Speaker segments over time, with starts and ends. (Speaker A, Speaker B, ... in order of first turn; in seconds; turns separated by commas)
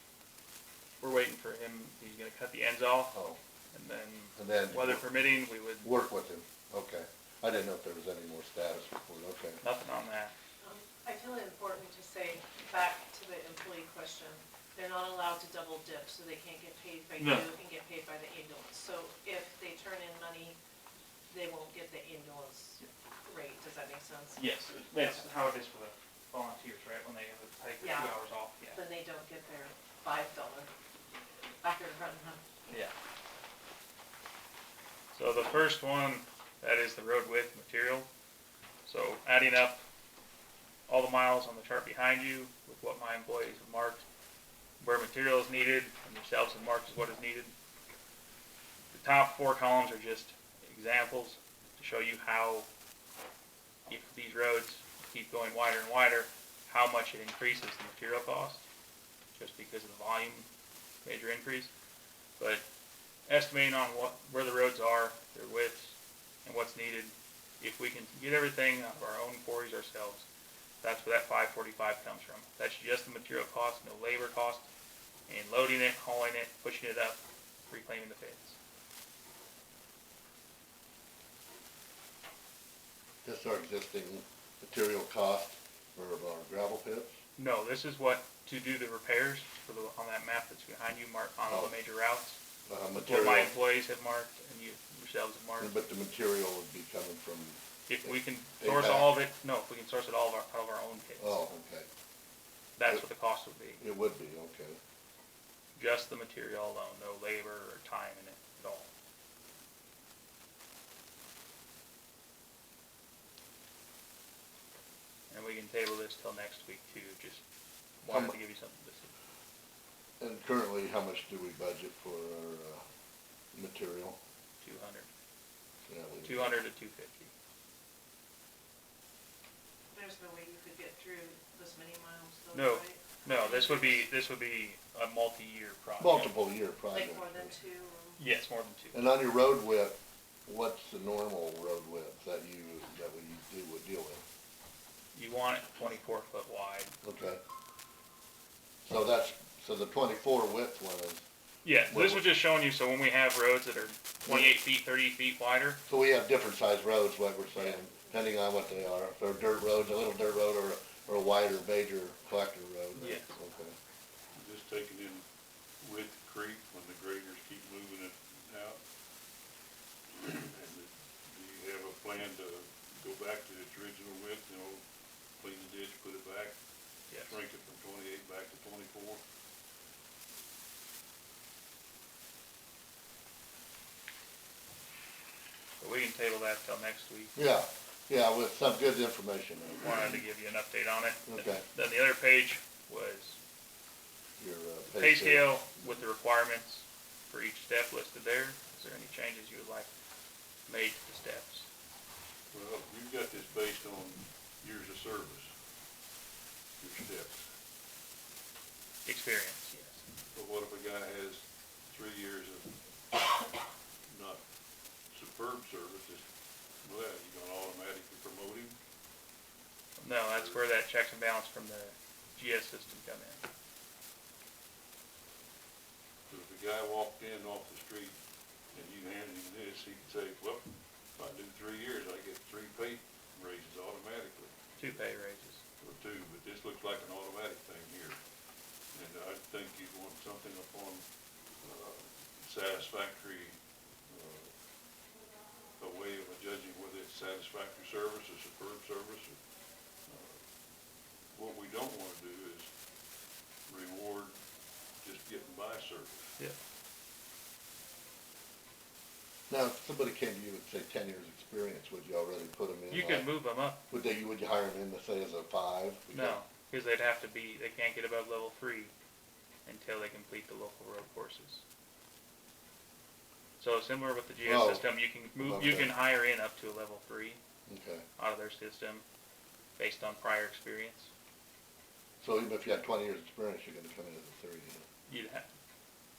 Speaker A: 1.0-3.1, Speaker B: 3.1-3.4, Speaker A: 3.7-5.9, Speaker B: 4.3-5.1, Speaker B: 5.8-9.6, Speaker A: 9.6-10.3, Speaker C: 10.6-20.6, Speaker A: 17.2-17.5, Speaker C: 21.3-25.2, Speaker A: 24.4-28.8, Speaker C: 27.8-28.1, Speaker C: 28.7-30.7, Speaker C: 31.6-32.4, Speaker A: 32.7-32.9, Speaker A: 35.1-38.1, Speaker A: 38.8-39.8, Speaker A: 40.9-44.0, Speaker A: 44.8-47.5, Speaker A: 48.9-52.7, Speaker A: 53.9-58.6, Speaker A: 59.3-60.5, Speaker A: 61.0-61.7, Speaker A: 62.4-62.6, Speaker A: 63.3-65.9, Speaker A: 66.4-70.2, Speaker A: 70.8-74.7, Speaker A: 75.3-78.5, Speaker B: 83.2-87.2, Speaker A: 87.4-92.4, Speaker B: 91.5-91.7, Speaker B: 92.7-93.5, Speaker A: 93.0-95.7, Speaker B: 95.6-99.1, Speaker A: 97.9-101.4, Speaker B: 101.2-101.9, Speaker A: 102.8-103.8, Speaker B: 103.8-104.8, Speaker A: 105.8-108.9, Speaker A: 115.3-117.4, Speaker A: 118.0-119.1, Speaker B: 118.0-118.3, Speaker B: 120.2-122.8, Speaker B: 123.5-124.2, Speaker A: 124.6-125.1, Speaker B: 125.9-126.6, Speaker A: 126.2-127.3, Speaker C: 129.9-134.0, Speaker A: 132.5-136.3, Speaker B: 136.0-137.5, Speaker C: 136.9-138.3, Speaker A: 138.2-139.0, Speaker B: 138.9-144.2, Speaker A: 145.1-146.9, Speaker B: 147.0-147.4, Speaker B: 148.8-151.2, Speaker A: 151.6-155.8, Speaker B: 151.9-152.3, Speaker B: 154.2-154.5, Speaker B: 155.9-163.8, Speaker A: 162.9-163.3, Speaker D: 164.3-165.2, Speaker D: 165.8-168.8, Speaker D: 170.1-174.8, Speaker D: 175.4-176.5, Speaker A: 177.1-177.4, Speaker D: 177.2-179.2, Speaker A: 185.8-187.3, Speaker B: 187.3-190.2, Speaker A: 189.8-193.4, Speaker B: 191.2-191.6, Speaker B: 194.4-196.0, Speaker A: 194.9-199.9, Speaker A: 200.7-201.7, Speaker D: 202.5-205.5, Speaker D: 206.8-207.4, Speaker A: 209.1-210.0, Speaker D: 210.3-213.5, Speaker D: 214.1-214.4, Speaker D: 215.1-216.2, Speaker D: 216.8-218.8, Speaker A: 220.0-223.4, Speaker D: 220.3-220.6, Speaker D: 226.3-228.2, Speaker D: 228.7-234.5, Speaker A: 234.8-235.6, Speaker D: 235.8-238.2, Speaker D: 238.9-241.0, Speaker D: 241.6-243.6, Speaker D: 244.1-244.5, Speaker D: 245.8-249.3, Speaker D: 250.1-250.4, Speaker D: 251.3-252.7, Speaker D: 253.7-254.3, Speaker D: 255.0-256.3, Speaker B: 259.5-263.3, Speaker A: 262.9-263.8, Speaker B: 263.9-266.4, Speaker A: 266.1-268.9, Speaker A: 269.6-271.6, Speaker A: 273.6-277.4, Speaker B: 274.4-275.9, Speaker B: 277.7-278.0, Speaker A: 278.2-279.0, Speaker A: 279.8-281.1, Speaker B: 282.2-284.8, Speaker A: 285.1-285.4